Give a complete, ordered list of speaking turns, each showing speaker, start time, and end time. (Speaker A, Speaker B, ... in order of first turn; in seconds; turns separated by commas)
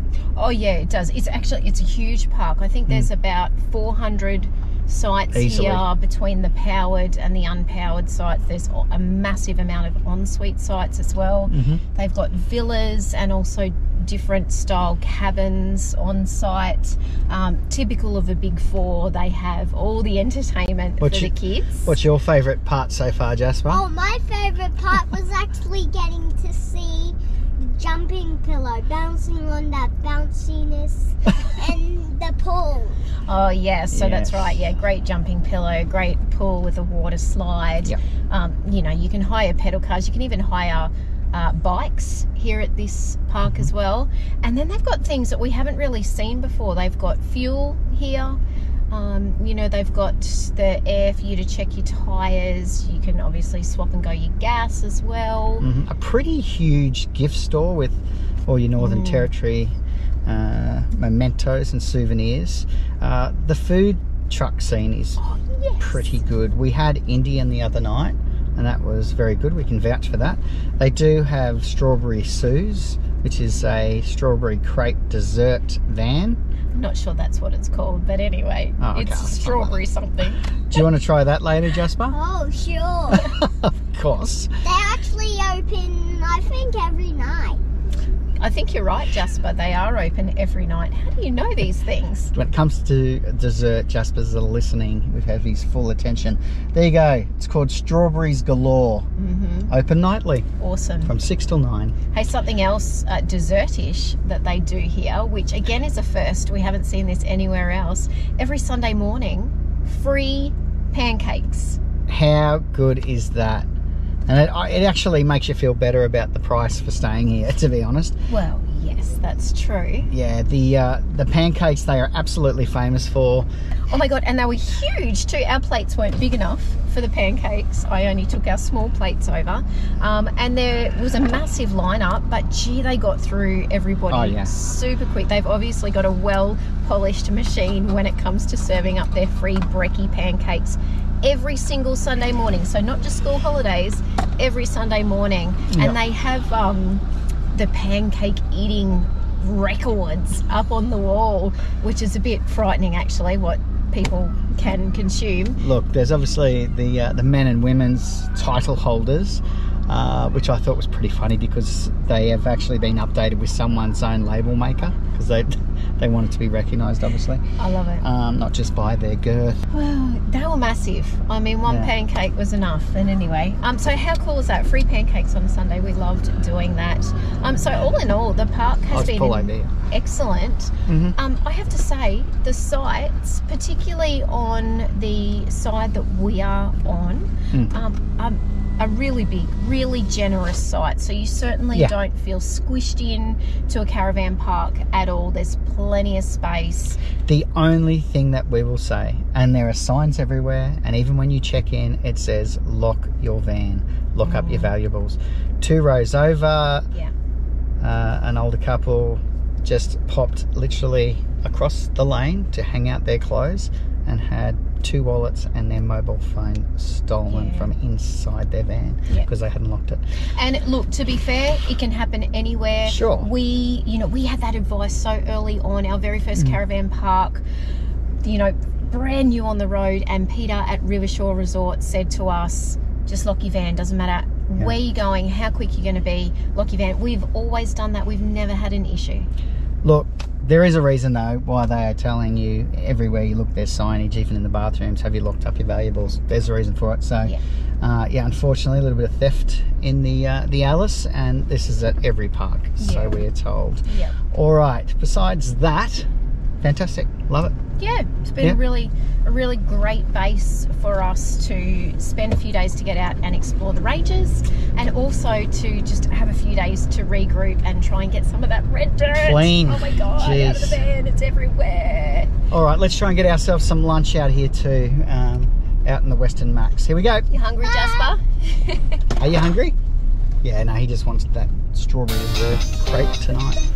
Speaker A: 0.3-22.0, Speaker B: 5.3-5.8, Speaker B: 11.5-11.8, Speaker B: 21.0-23.8, Speaker C: 23.7-33.0, Speaker A: 33.2-48.4, Speaker B: 33.9-34.6, Speaker B: 43.4-43.7, Speaker A: 48.9-55.6, Speaker B: 55.6-65.2, Speaker A: 58.8-59.3, Speaker A: 65.2-66.2, Speaker B: 65.8-76.4, Speaker A: 76.7-80.4, Speaker B: 78.8-79.8, Speaker B: 80.7-82.2, Speaker C: 82.1-83.3, Speaker B: 83.1-84.6, Speaker C: 84.6-87.6, Speaker A: 88.4-92.3, Speaker B: 92.3-99.1, Speaker A: 99.2-99.7, Speaker B: 99.7-100.5, Speaker A: 100.6-101.1, Speaker B: 101.0-102.0, Speaker A: 102.1-111.8, Speaker B: 112.1-113.7, Speaker B: 114.3-118.2, Speaker A: 118.3-120.1, Speaker B: 120.0-123.5, Speaker A: 123.9-155.6, Speaker B: 134.1-134.5, Speaker B: 145.7-146.0, Speaker B: 155.6-167.4, Speaker A: 167.6-168.0, Speaker B: 168.0-169.6, Speaker A: 169.7-197.0, Speaker B: 171.7-171.9, Speaker B: 178.9-179.7, Speaker B: 180.8-181.2, Speaker B: 197.2-206.9, Speaker A: 204.2-204.7, Speaker B: 207.8-220.0, Speaker A: 217.3-217.7, Speaker A: 220.3-227.4, Speaker B: 222.8-223.3, Speaker B: 226.3-226.6, Speaker A: 228.2-239.3, Speaker B: 239.8-256.1, Speaker A: 252.8-253.2, Speaker A: 253.8-254.2, Speaker B: 256.6-257.5, Speaker A: 257.8-272.3, Speaker B: 269.1-270.8, Speaker B: 272.5-277.3, Speaker A: 277.3-279.0, Speaker C: 277.6-278.1, Speaker B: 279.2-279.8, Speaker B: 280.4-283.6